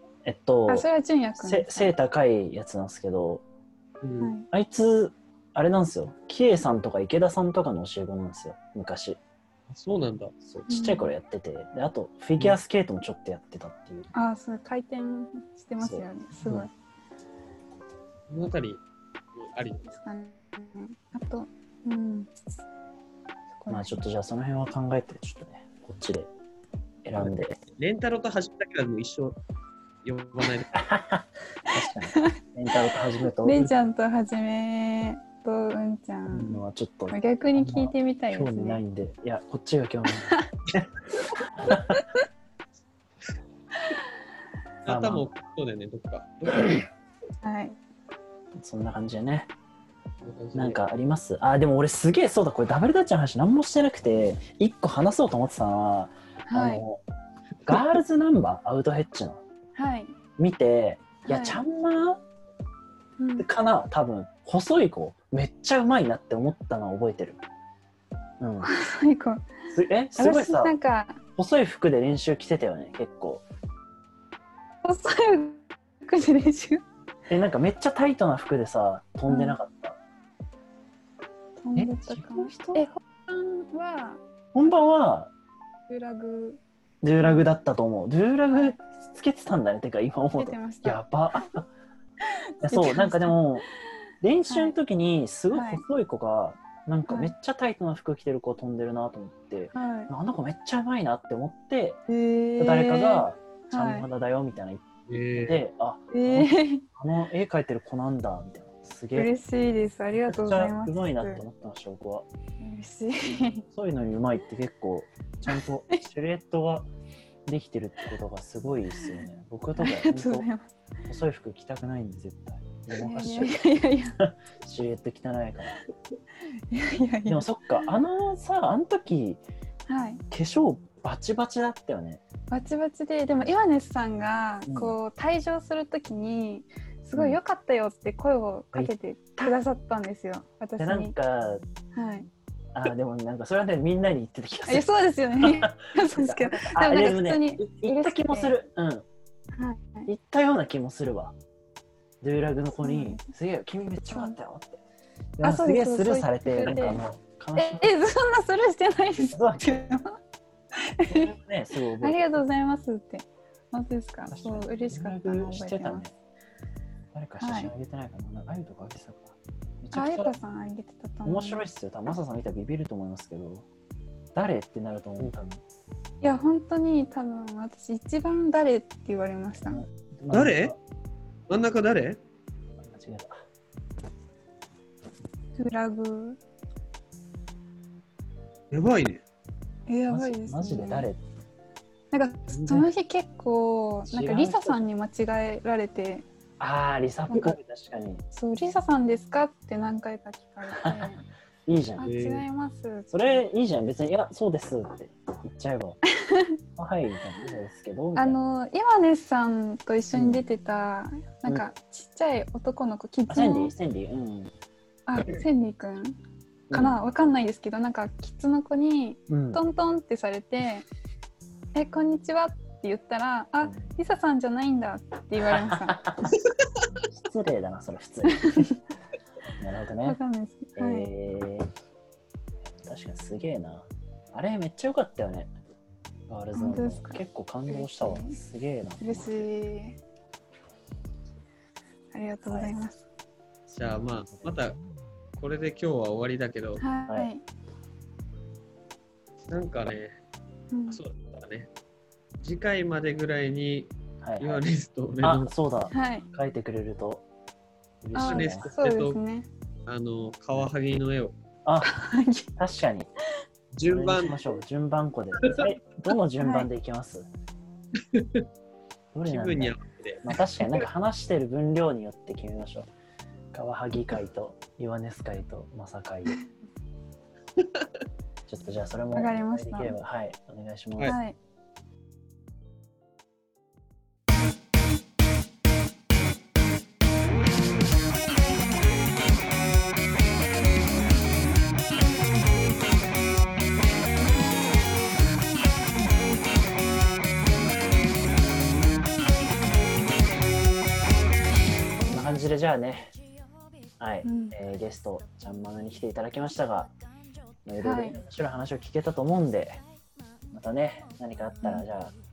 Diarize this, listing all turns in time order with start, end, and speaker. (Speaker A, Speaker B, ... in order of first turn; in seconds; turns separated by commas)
Speaker A: 0.2-0.9, Speaker B: 0.7-1.9, Speaker A: 1.4-3.4, Speaker C: 4.0-4.3, Speaker B: 4.2-4.5, Speaker A: 4.5-9.2, Speaker C: 9.7-10.3, Speaker A: 10.4-14.1, Speaker B: 10.7-11.1, Speaker B: 14.1-16.7, Speaker A: 15.8-16.6, Speaker C: 18.3-18.8, Speaker C: 19.4-20.0, Speaker B: 19.9-22.3, Speaker B: 23.6-24.0, Speaker A: 23.7-26.3, Speaker A: 27.0-27.6, Speaker C: 27.2-29.4, Speaker C: 30.0-30.8, Speaker A: 30.7-33.7, Speaker B: 32.1-38.8, Speaker A: 36.3-40.9, Speaker A: 41.6-42.0, Speaker B: 41.9-42.2, Speaker C: 44.8-46.9, Speaker A: 44.9-45.3, Speaker B: 47.4-47.7, Speaker A: 48.5-49.5, Speaker C: 50.2-50.8, Speaker A: 50.5-57.0, Speaker B: 56.5-56.8, Speaker A: 57.6-59.4, Speaker B: 59.7-60.1, Speaker A: 60.4-62.2, Speaker B: 61.3-61.6, Speaker B: 63.2-63.5, Speaker A: 63.4-67.4, Speaker A: 68.4-68.7, Speaker B: 68.6-69.5, Speaker A: 69.7-70.8, Speaker B: 70.2-71.2, Speaker A: 71.3-73.4, Speaker B: 74.8-76.8, Speaker A: 77.3-80.0, Speaker B: 79.3-79.6, Speaker B: 81.6-84.2, Speaker A: 81.7-82.9, Speaker A: 84.5-85.3, Speaker B: 85.9-86.6, Speaker A: 87.0-91.7, Speaker B: 87.2-87.5, Speaker B: 90.4-91.0, Speaker B: 92.2-93.4, Speaker A: 92.6-93.7, Speaker A: 94.2-102.0, Speaker B: 94.5-94.8, Speaker B: 95.5-95.8, Speaker B: 99.7-100.1, Speaker B: 102.1-104.1, Speaker A: 102.6-104.8, Speaker C: 105.1-105.6, Speaker A: 105.3-109.3, Speaker B: 106.1-106.8, Speaker B: 109.1-111.4, Speaker A: 110.2-112.3, Speaker B: 112.6-113.6, Speaker A: 113.6-116.9, Speaker B: 115.6-116.0, Speaker A: 117.5-120.5, Speaker B: 119.8-120.7, Speaker A: 121.0-123.7, Speaker B: 122.9-124.2, Speaker A: 124.2-125.8, Speaker B: 126.5-127.5, Speaker A: 127.3-129.4, Speaker B: 129.9-130.2, Speaker A: 130.3-132.2, Speaker B: 132.5-141.1, Speaker A: 134.7-134.9, Speaker A: 138.7-139.5, Speaker A: 140.8-141.6, Speaker B: 141.9-142.3, Speaker A: 142.7-149.0, Speaker B: 144.7-148.5, Speaker B: 149.5-150.1, Speaker A: 150.1-151.3, Speaker A: 152.2-154.8, Speaker B: 152.8-153.2, Speaker B: 154.1-154.3, Speaker A: 155.4-157.9, Speaker B: 155.4-157.0, Speaker B: 157.6-160.2, Speaker A: 159.3-159.9, Speaker B: 160.8-161.3, Speaker A: 161.0-162.4, Speaker B: 162.0-166.1, Speaker A: 164.3-166.1, Speaker A: 167.1-170.3, Speaker B: 167.4-167.7, Speaker B: 169.9-171.6, Speaker A: 171.2-173.7, Speaker A: 174.3-175.6, Speaker B: 176.2-179.8, Speaker A: 179.6-180.8, Speaker C: 180.3-180.7, Speaker C: 181.5-182.2, Speaker A: 182.8-183.4, Speaker B: 185.6-186.4, Speaker C: 188.7-189.2, Speaker B: 189.9-191.1, Speaker A: 190.1-191.2, Speaker B: 192.1-196.2, Speaker A: 192.5-192.9, Speaker A: 194.1-194.8, Speaker A: 196.6-198.2, Speaker B: 197.3-197.5, Speaker B: 198.3-201.2, Speaker A: 200.7-201.1, Speaker A: 201.7-202.2, Speaker B: 202.0-203.1, Speaker C: 202.0-202.4, Speaker A: 203.1-206.0, Speaker B: 206.1-206.6, Speaker A: 206.8-208.4, Speaker B: 208.2-213.7, Speaker A: 210.1-210.4, Speaker A: 213.3-214.5, Speaker B: 215.1-216.2, Speaker A: 216.7-217.0, Speaker B: 216.7-220.8, Speaker A: 219.3-219.6, Speaker B: 221.7-226.1, Speaker A: 225.4-226.4, Speaker A: 226.9-228.7, Speaker B: 228.2-228.8, Speaker A: 229.6-230.2, Speaker B: 230.0-231.1, Speaker A: 230.8-231.7, Speaker A: 232.8-235.5, Speaker A: 236.3-239.5, Speaker B: 236.5-238.4, Speaker B: 239.0-240.0, Speaker B: 242.1-243.0, Speaker A: 242.4-242.8, Speaker A: 243.7-244.8, Speaker C: 243.8-244.8, Speaker C: 245.4-246.8, Speaker B: 246.8-247.4, Speaker C: 249.5-250.1, Speaker B: 250.7-251.0, Speaker C: 250.9-251.7, Speaker C: 252.4-255.5, Speaker A: 254.2-254.6, Speaker A: 255.2-257.2, Speaker B: 255.9-256.3, Speaker A: 258.0-258.7, Speaker B: 258.1-259.5, Speaker C: 258.1-259.2, Speaker C: 259.9-261.4, Speaker A: 261.6-261.9, Speaker B: 261.8-262.5, Speaker A: 262.6-263.1, Speaker C: 263.7-264.6, Speaker A: 263.9-267.3, Speaker C: 265.4-265.6, Speaker B: 266.4-266.7, Speaker C: 268.0-268.4, Speaker A: 269.1-272.9, Speaker C: 269.2-270.4, Speaker A: 273.5-276.4, Speaker C: 277.6-277.9, Speaker A: 278.5-281.2, Speaker B: 279.1-280.0, Speaker B: 281.0-281.4, Speaker A: 302.0-303.1, Speaker A: 304.0-306.9, Speaker B: 304.2-304.6, Speaker A: 307.6-309.8, Speaker B: 307.8-308.2, Speaker A: 310.5-312.1